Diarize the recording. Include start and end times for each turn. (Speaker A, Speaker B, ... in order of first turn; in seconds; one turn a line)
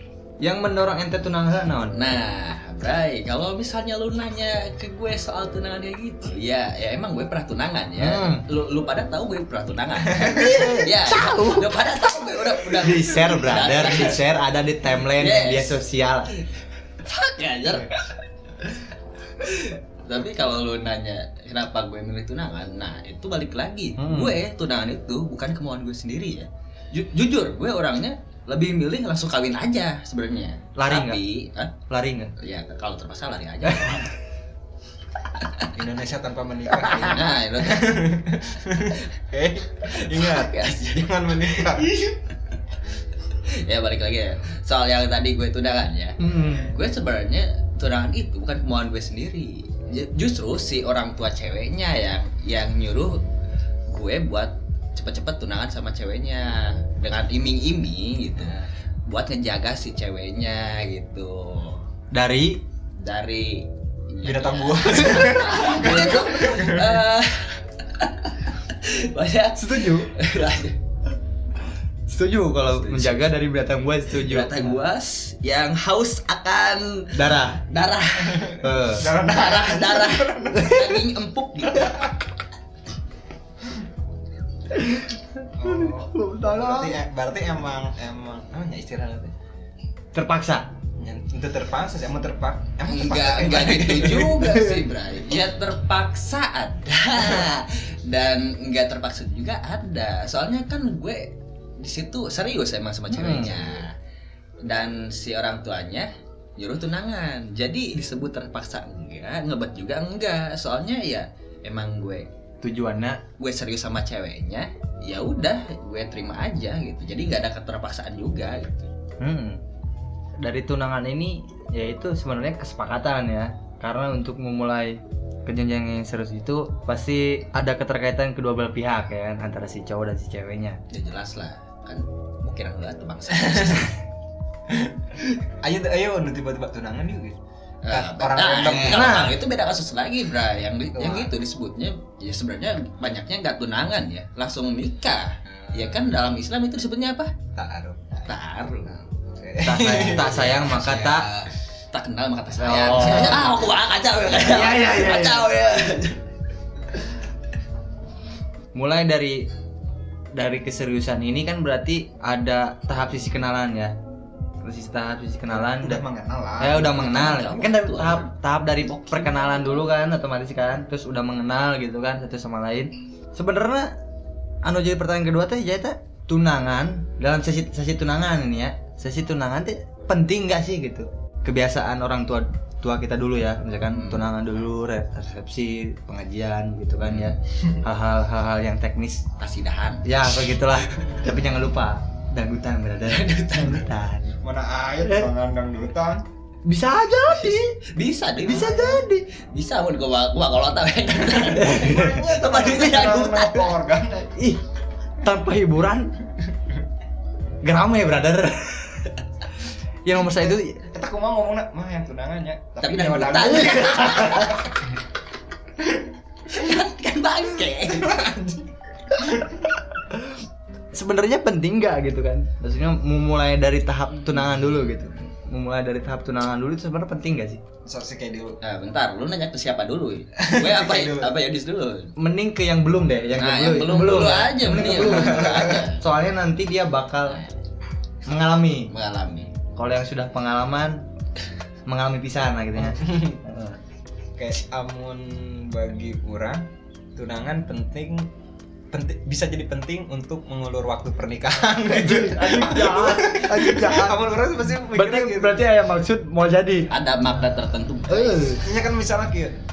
Speaker A: 0.4-2.0
Speaker B: 1.9-14.3
Speaker A: 8.0-8.4
Speaker A: 10.2-11.7
Speaker C: 10.2-10.6
Speaker A: 12.7-16.3
Speaker B: 15.0-16.5
Speaker B: 17.0-18.0
Speaker B: 19.4-31.7
Speaker A: 24.0-24.4
Speaker A: 30.8-31.2
Speaker A: 31.9-32.3
Speaker B: 32.4-34.1
Speaker B: 35.4-35.7
Speaker C: 35.7-41.9
Speaker B: 36.8-37.9
Speaker B: 39.9-42.3
Speaker B: 43.5-53.2
Speaker A: 46.2-46.7
Speaker B: 53.9-61.8
Speaker A: 62.1-62.6
Speaker B: 63.0-70.8
Speaker C: 64.2-67.0
Speaker A: 69.6-70.1
Speaker A: 72.1-74.8
Speaker B: 72.7-73.2
Speaker B: 74.1-78.7
Speaker A: 77.2-77.6
Speaker C: 78.3-80.7
Speaker A: 78.6-79.1
Speaker B: 79.3-82.1
Speaker A: 80.6-81.0
Speaker A: 84.7-87.0
Speaker C: 85.6-89.3
Speaker A: 90.1-90.7
Speaker C: 91.0-94.5
Speaker B: 92.9-103.9
Speaker A: 94.5-94.8
Speaker C: 97.2-97.4
Speaker A: 103.1-103.7
Speaker B: 104.7-112.3
Speaker A: 112.6-113.2
Speaker B: 113.4-118.9
Speaker A: 119.2-119.6
Speaker A: 120.4-130.8
Speaker B: 130.9-134.0
Speaker C: 134.7-137.4
Speaker B: 137.8-147.3
Speaker C: 137.9-139.3
Speaker A: 138.7-139.4
Speaker C: 140.9-141.3
Speaker C: 145.5-146.0
Speaker C: 147.6-151.6
Speaker B: 148.3-149.0
Speaker A: 149.6-151.3
Speaker B: 151.9-156.2
Speaker A: 152.6-153.6
Speaker A: 154.3-155.8
Speaker A: 158.8-159.4
Speaker A: 160.3-163.9
Speaker A: 164.6-166.0
Speaker C: 165.5-167.1
Speaker A: 166.6-173.9
Speaker B: 166.9-169.9
Speaker A: 174.6-189.2
Speaker B: 183.9-184.3
Speaker B: 187.0-187.4
Speaker B: 189.4-190.8
Speaker A: 190.1-194.4
Speaker B: 193.0-193.9
Speaker C: 194.4-196.2
Speaker A: 196.7-197.8
Speaker B: 197.4-203.6
Speaker A: 198.4-199.3
Speaker C: 201.3-204.3
Speaker A: 201.7-203.3
Speaker A: 204.3-204.6
Speaker A: 205.2-206.2
Speaker A: 207.6-209.2
Speaker A: 210.0-210.8
Speaker C: 210.9-214.6
Speaker B: 212.8-214.6
Speaker A: 214.0-214.6
Speaker B: 216.5-218.2
Speaker C: 217.8-219.6
Speaker A: 220.9-227.6
Speaker B: 224.2-225.0
Speaker C: 227.8-228.6
Speaker B: 228.6-232.1
Speaker C: 230.4-231.3
Speaker A: 232.2-237.4
Speaker B: 233.4-236.0
Speaker C: 234.7-235.8
Speaker A: 238.3-238.9
Speaker B: 238.9-239.5
Speaker A: 239.8-241.0
Speaker A: 241.9-243.8
Speaker C: 242.8-243.4
Speaker C: 244.4-246.7
Speaker C: 247.2-248.3
Speaker C: 248.9-255.7
Speaker A: 251.9-254.2
Speaker A: 254.9-256.9
Speaker B: 256.9-258.6
Speaker A: 258.1-258.7
Speaker C: 258.6-259.6